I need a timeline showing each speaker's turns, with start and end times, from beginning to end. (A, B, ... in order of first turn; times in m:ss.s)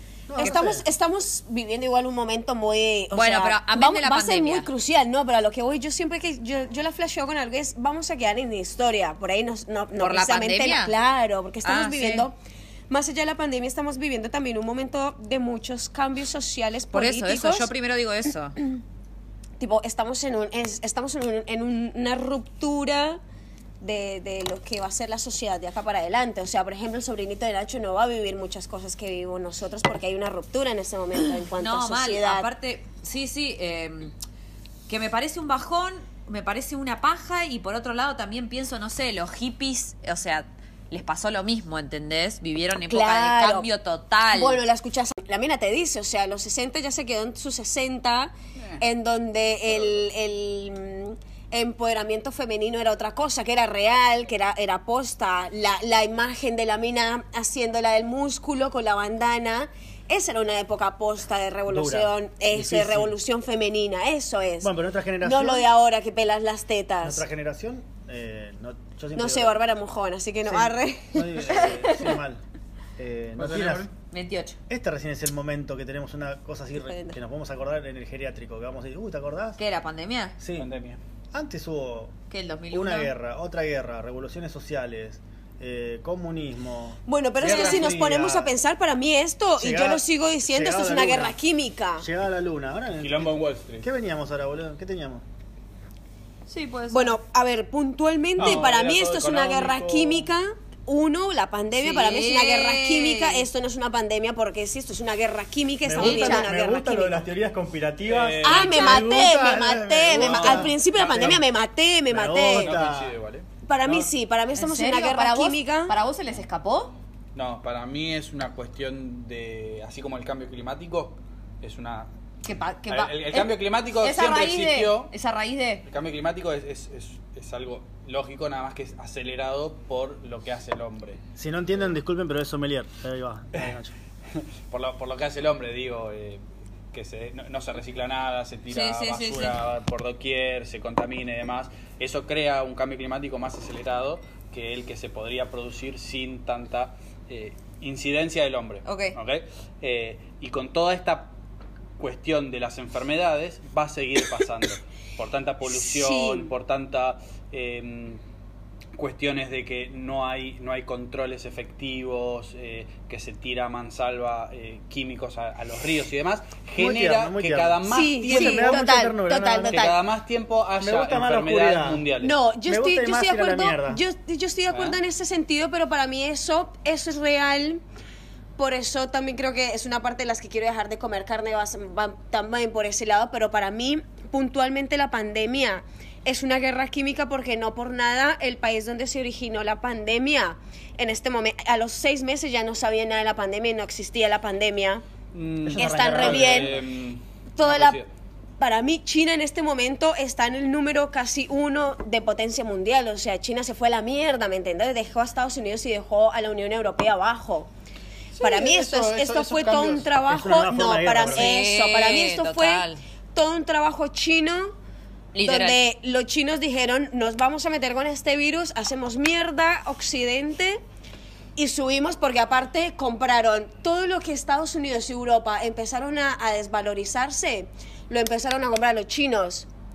0:00.3-0:00.8 A
0:00.4-0:12.4 B
0:03.1-0:04.7 C
0:10.0-0:10.9 C
0:11.6-0:12.3 C
0:12.9-0:17.7 B
0:16.9-0:18.6 C
0:19.6-0:23.2 B
0:23.8-0:32.5 B
0:31.6-0:34.1 C
0:34.9-0:44.6 C
0:42.9-0:43.7 B
0:44.3-1:04.7 B
1:01.7-1:03.1 A
1:04.6-1:05.7 A
1:05.2-1:07.2 B
1:07.0-1:09.6 A
1:09.2-1:12.2 B
1:10.4-1:12.4 A
1:13.0-1:13.9 A
1:13.4-1:13.9 D
1:14.1-1:14.6 C
1:14.7-1:19.6 A
1:16.8-1:17.2 B
1:19.6-1:20.4 C
1:20.4-1:20.7 A
1:20.6-1:21.0 D
1:21.3-1:22.1 A
1:22.3-1:23.1 C
1:22.7-1:28.5 A
1:27.1-1:32.1 B
1:29.6-1:31.4 A
1:32.0-1:35.2 A
1:33.0-1:33.9 D
1:36.5-1:37.2 C
1:36.9-1:47.2 B
1:38.4-1:40.3 D
1:41.8-1:43.4 C
1:45.8-1:51.4 A
1:46.0-1:46.5 C
1:48.0-1:49.0 D
1:48.4-1:52.8 B
1:50.1-1:51.4 D
1:52.1-1:53.1 A
1:52.5-1:53.4 D
1:53.6-1:55.9 B
1:53.8-1:54.1 A
1:54.6-1:56.9 C
1:57.3-2:02.1 D
2:02.4-2:05.8 C
2:02.9-2:05.1 D
2:05.9-2:11.2 D
2:11.4-2:13.9 A
2:14.4-2:31.3 D
2:18.7-2:19.6 C
2:28.8-2:29.2 C
2:32.0-2:38.2 D
2:35.6-2:36.5 B
2:39.0-2:48.8 D
2:46.8-2:49.8 A
2:47.8-2:50.0 B
2:49.7-2:52.3 D
2:50.8-2:52.0 A
2:52.2-2:57.8 B
2:52.6-2:54.0 A
2:54.7-2:55.0 D
2:58.6-3:15.0 B
3:15.3-3:18.1 D
3:15.6-3:16.8 A
3:15.8-3:16.8 B
3:17.6-3:18.0 B
3:18.6-3:27.7 B
3:28.3-3:30.1 D
3:28.4-3:34.7 B
3:30.2-3:31.5 A
3:31.2-3:33.0 C
3:35.3-3:35.8 C
3:35.4-3:40.8 B
3:41.6-3:49.7 B